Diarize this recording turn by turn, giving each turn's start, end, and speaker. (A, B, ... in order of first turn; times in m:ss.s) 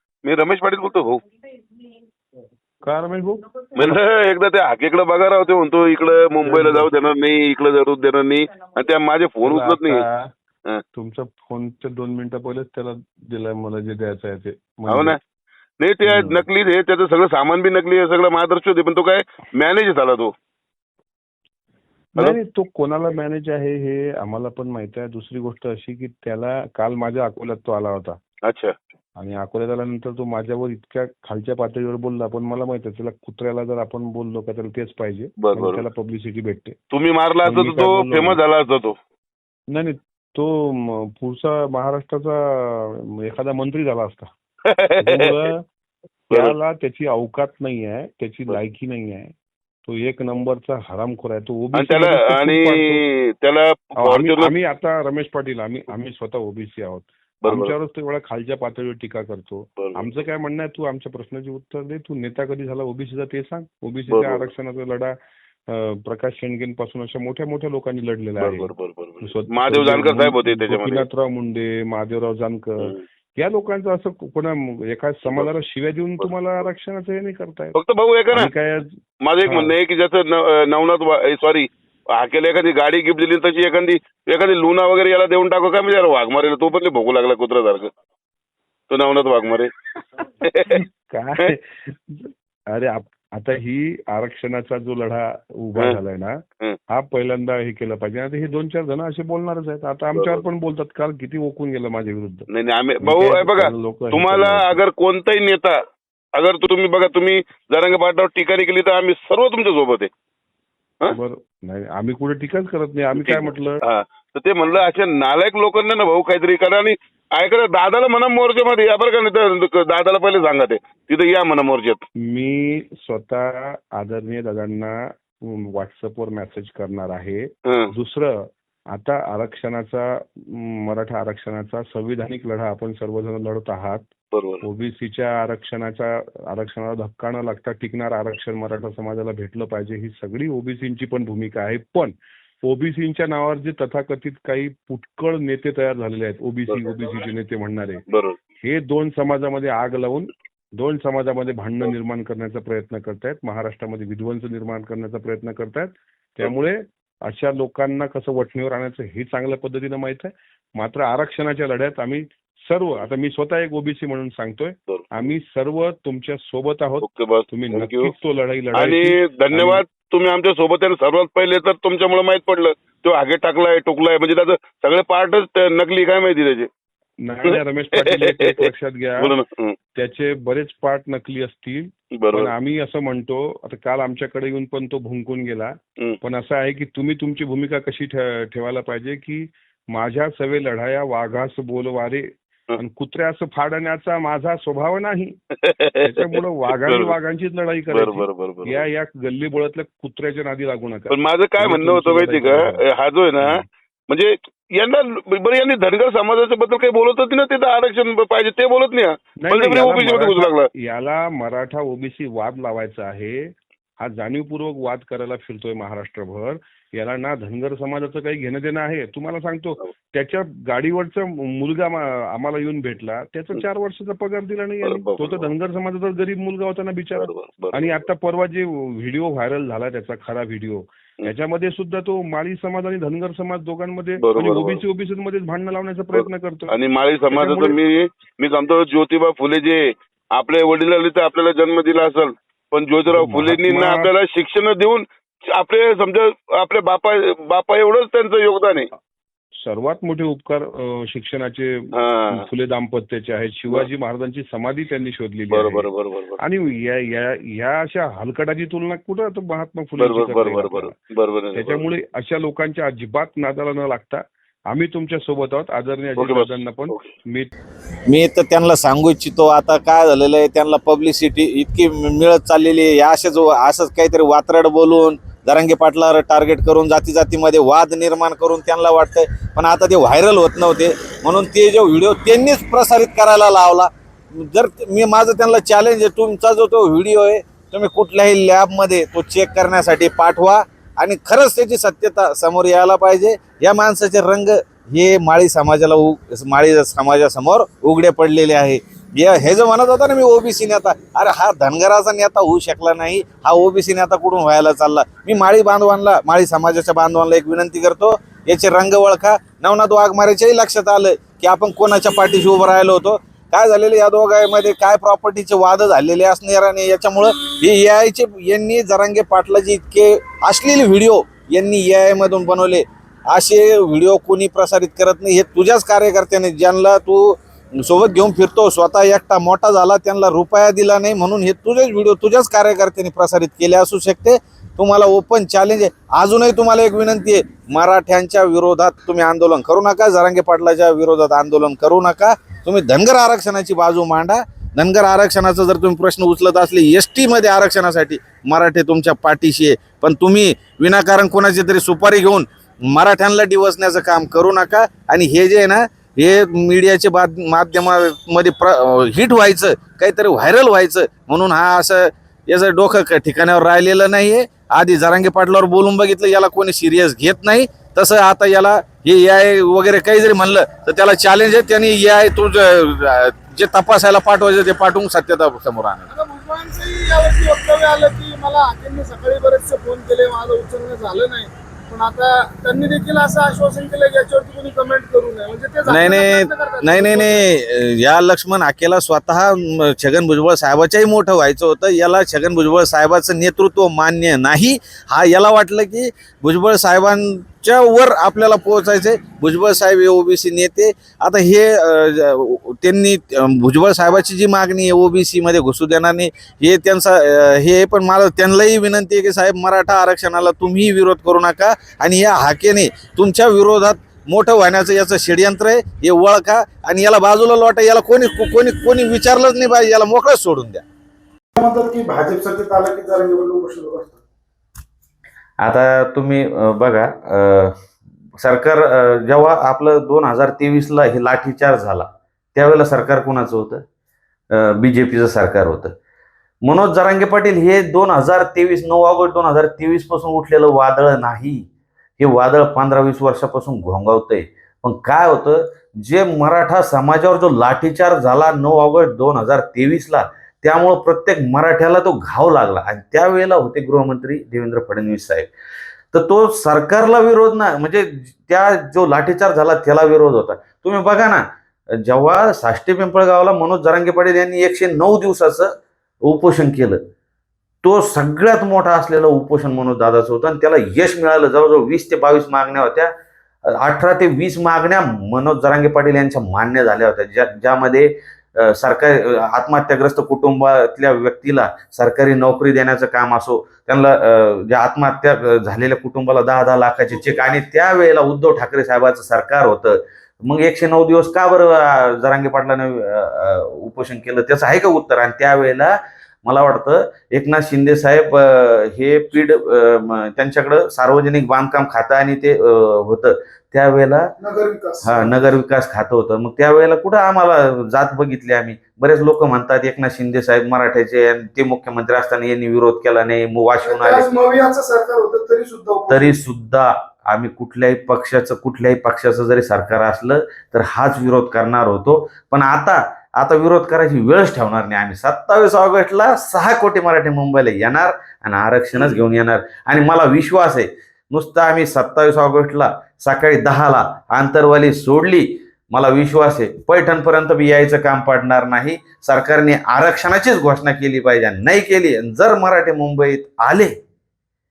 0:00.2-0:01.2 A
0:02.8-0:03.9 B
0:03.8-0:10.0 A
0:06.4-0:06.9 B
0:09.4-0:10.3 B
0:11.0-0:15.2 B
0:14.9-0:15.2 A
0:15.8-0:20.3 A
0:16.0-0:16.4 B
0:22.2-0:28.2 B
0:28.4-0:28.7 A
0:29.2-0:36.8 B
0:35.4-0:35.8 A
0:36.9-0:39.0 A
0:37.4-0:38.4 B
0:39.7-0:44.3 B
0:44.7-0:45.3 A
0:45.0-0:45.6 B
0:46.3-0:46.6 A
0:46.3-0:49.3 B
0:49.8-0:53.0 B
0:51.7-0:54.5 A
0:54.0-1:05.2 B
0:57.4-0:57.7 A
0:59.8-1:00.1 A
1:04.1-1:04.5 A
1:05.7-1:17.8 B
1:08.4-1:11.1 A
1:17.8-1:18.5 A
1:18.3-1:19.8 B
1:19.2-1:27.9 A
1:28.9-1:29.7 A
1:30.4-1:30.8 A
1:30.7-1:36.3 B
1:36.9-1:42.5 B
1:40.1-1:40.4 A
1:42.5-1:45.8 A
1:43.0-1:44.8 B
1:46.4-1:50.1 A
1:51.1-1:53.8 B
1:53.2-2:02.0 A
2:02.3-2:14.1 B
2:14.3-2:14.6 A
2:14.6-2:28.0 B
2:28.1-2:28.4 A
2:28.6-2:49.8 B
2:44.9-2:45.2 A
2:47.0-2:48.1 A
2:48.8-2:56.7 A
2:57.2-2:59.4 B
2:57.4-2:58.6 A
2:59.2-2:59.8 A
3:00.0-3:15.4 B
3:02.2-3:02.5 A
3:15.6-3:16.2 A
3:16.0-3:22.8 B
3:16.8-3:17.2 A
3:17.9-3:18.8 A
3:21.1-3:30.7 A
3:23.4-3:23.7 B
3:29.4-3:56.8 B
3:44.8-3:45.5 A
3:47.2-3:48.1 A
3:54.2-3:54.8 A
3:56.1-4:05.0 A
3:57.3-3:57.8 B
4:03.1-4:04.1 B
4:05.6-4:08.9 A
4:09.6-4:11.8 B
4:11.9-4:12.4 A
4:12.3-4:15.9 B
4:15.5-4:16.4 A
4:16.4-4:21.0 B
4:20.0-4:21.8 A
4:21.6-4:27.5 B
4:26.2-4:27.1 A
4:28.1-6:16.1 C
6:16.1-6:27.5 D
6:25.9-7:00.8 C
7:01.6-7:04.2 D
7:05.6-7:07.7 C
7:08.4-7:13.8 C
7:14.5-7:15.9 C
7:16.6-7:21.7 C
7:22.2-7:35.5 C
7:36.1-7:41.4 C
7:42.0-7:45.7 C
7:46.2-7:47.0 C
7:47.8-7:53.1 C
7:53.7-8:15.9 C
8:16.4-8:24.3 C
8:24.4-8:25.4 D
8:25.0-8:34.3 C
8:33.8-8:36.4 D
8:36.1-9:03.9 C